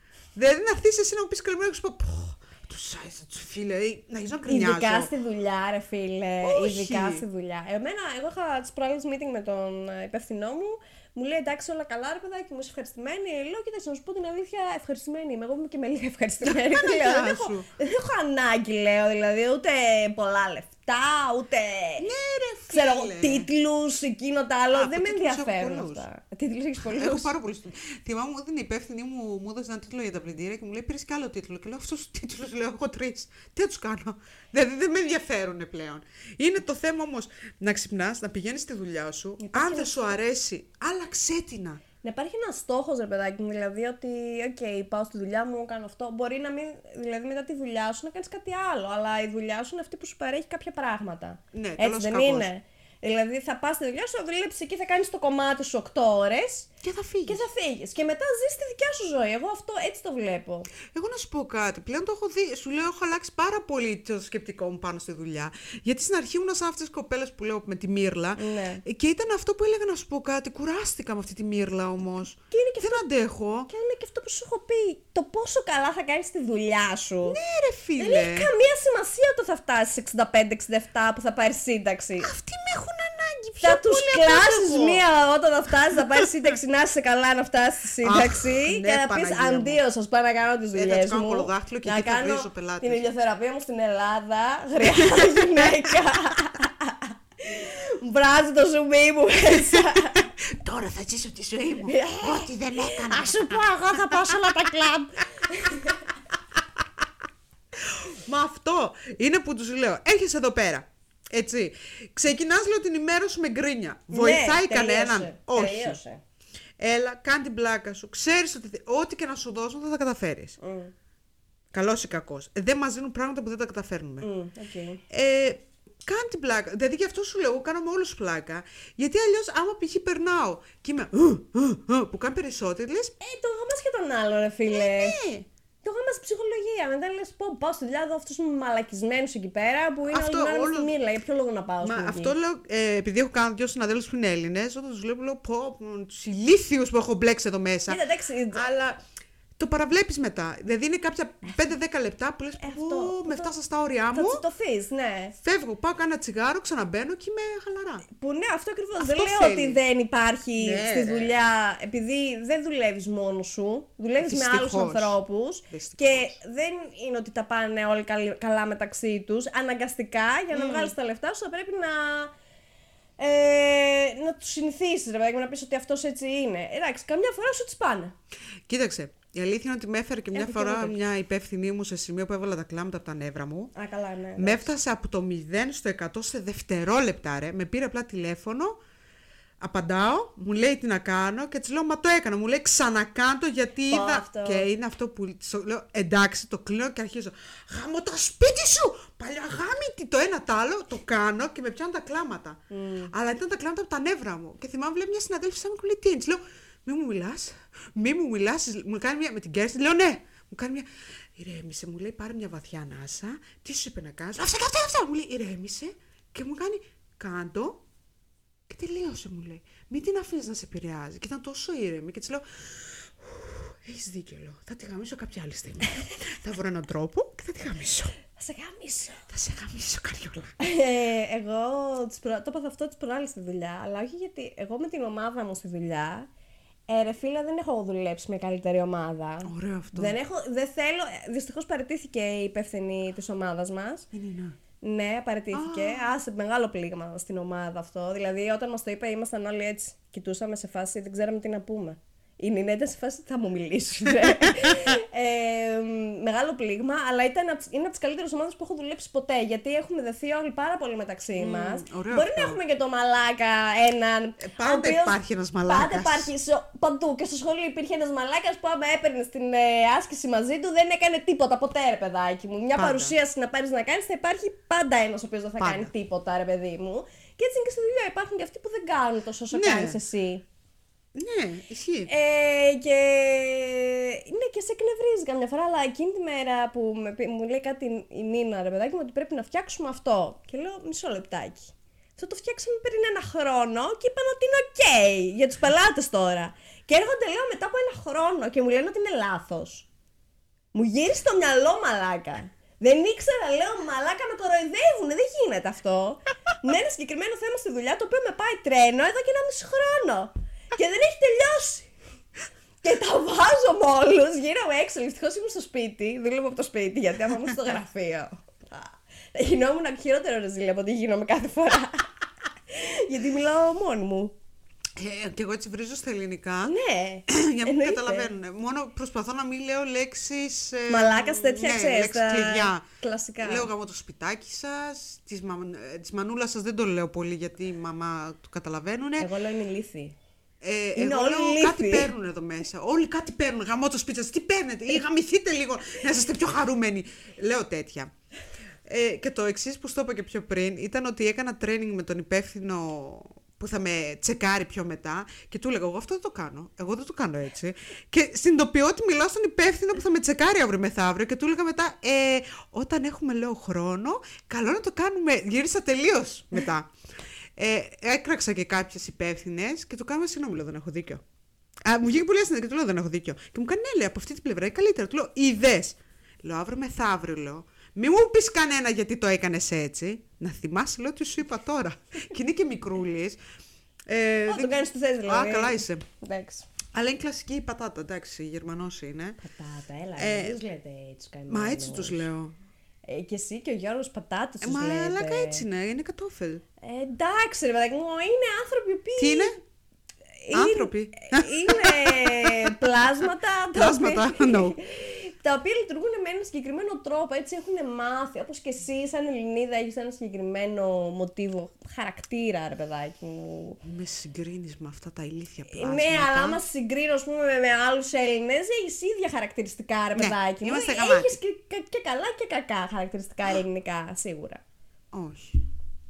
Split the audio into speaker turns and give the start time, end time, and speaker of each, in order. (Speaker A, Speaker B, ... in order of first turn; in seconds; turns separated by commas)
Speaker A: 0.3-5.1, Speaker B: 4.5-22.1, Speaker A: 6.4-7.2, Speaker A: 16.4-17.7, Speaker A: 22.0-23.5, Speaker B: 22.7-27.3, Speaker A: 24.7-26.0, Speaker A: 26.8-41.8, Speaker B: 39.4-40.0, Speaker B: 42.0-56.7, Speaker A: 51.5-52.5, Speaker A: 56.8-57.4, Speaker B: 57.3-60.7, Speaker A: 60.9-73.7, Speaker B: 68.3-68.8, Speaker B: 72.5-73.0, Speaker B: 73.7-77.4, Speaker A: 77.2-78.5, Speaker B: 78.0-82.3, Speaker A: 82.2-85.0, Speaker B: 83.6-100.3, Speaker A: 88.0-89.8, Speaker A: 90.7-93.0, Speaker A: 95.0-95.7, Speaker A: 99.5-104.7, Speaker B: 101.8-106.0, Speaker A: 107.8-116.0, Speaker B: 114.1-116.2, Speaker A: 116.8-120.6, Speaker B: 120.6-120.9, Speaker A: 121.7-124.3, Speaker B: 124.2-125.0, Speaker A: 125.1-133.1, Speaker B: 133.2-135.2, Speaker A: 134.7-135.5, Speaker B: 135.8-142.3, Speaker A: 140.1-140.9, Speaker A: 141.8-148.0, Speaker B: 147.9-148.6, Speaker A: 148.5-149.0, Speaker A: 149.6-154.4, Speaker B: 152.6-153.5, Speaker B: 154.1-155.3, Speaker A: 155.4-158.0, Speaker B: 158.1-172.3, Speaker A: 159.0-159.8, Speaker A: 160.6-161.3, Speaker A: 164.2-165.2, Speaker A: 165.7-166.3, Speaker A: 170.5-170.9, Speaker B: 173.2-178.1, Speaker A: 178.7-183.7, Speaker B: 180.3-181.0, Speaker B: 183.7-184.7, Speaker A: 184.3-188.8, Speaker A: 189.6-202.6, Speaker B: 193.9-194.7, Speaker B: 202.7-203.1, Speaker A: 203.1-217.8, Speaker A: 218.7-228.2, Speaker B: 228.3-229.2, Speaker A: 229.3-230.6, Speaker B: 230.6-236.3, Speaker B: 236.9-244.1, Speaker A: 239.4-240.2, Speaker A: 244.1-244.6, Speaker B: 244.8-280.4, Speaker A: 245.5-246.1, Speaker A: 254.2-254.9, Speaker A: 261.4-262.6, Speaker A: 264.4-266.3, Speaker A: 272.8-273.1, Speaker A: 275.6-275.9, Speaker A: 279.5-280.0, Speaker A: 281.1-282.1, Speaker B: 282.1-299.9, Speaker B: 300.7-311.9, Speaker B: 312.8-322.1, Speaker B: 322.7-324.3, Speaker A: 324.9-326.8, Speaker B: 326.6-328.3, Speaker A: 327.3-332.8, Speaker B: 330.9-333.7, Speaker A: 333.4-339.3, Speaker B: 339.2-340.1, Speaker A: 340.6-348.1, Speaker B: 340.9-342.1, Speaker A: 348.9-366.9, Speaker A: 367.6-371.2, Speaker A: 371.8-383.4, Speaker A: 384.1-386.0, Speaker B: 384.5-386.6, Speaker A: 386.9-389.4, Speaker B: 389.4-392.3, Speaker A: 390.2-390.6, Speaker A: 391.5-392.5, Speaker B: 393.1-395.6, Speaker A: 394.6-396.6, Speaker B: 396.8-399.6, Speaker A: 399.2-399.6, Speaker B: 400.4-413.8, Speaker A: 400.5-402.8, Speaker A: 403.7-404.8, Speaker A: 413.8-416.6, Speaker B: 415.7-424.6, Speaker A: 420.1-421.4, Speaker A: 425.1-425.6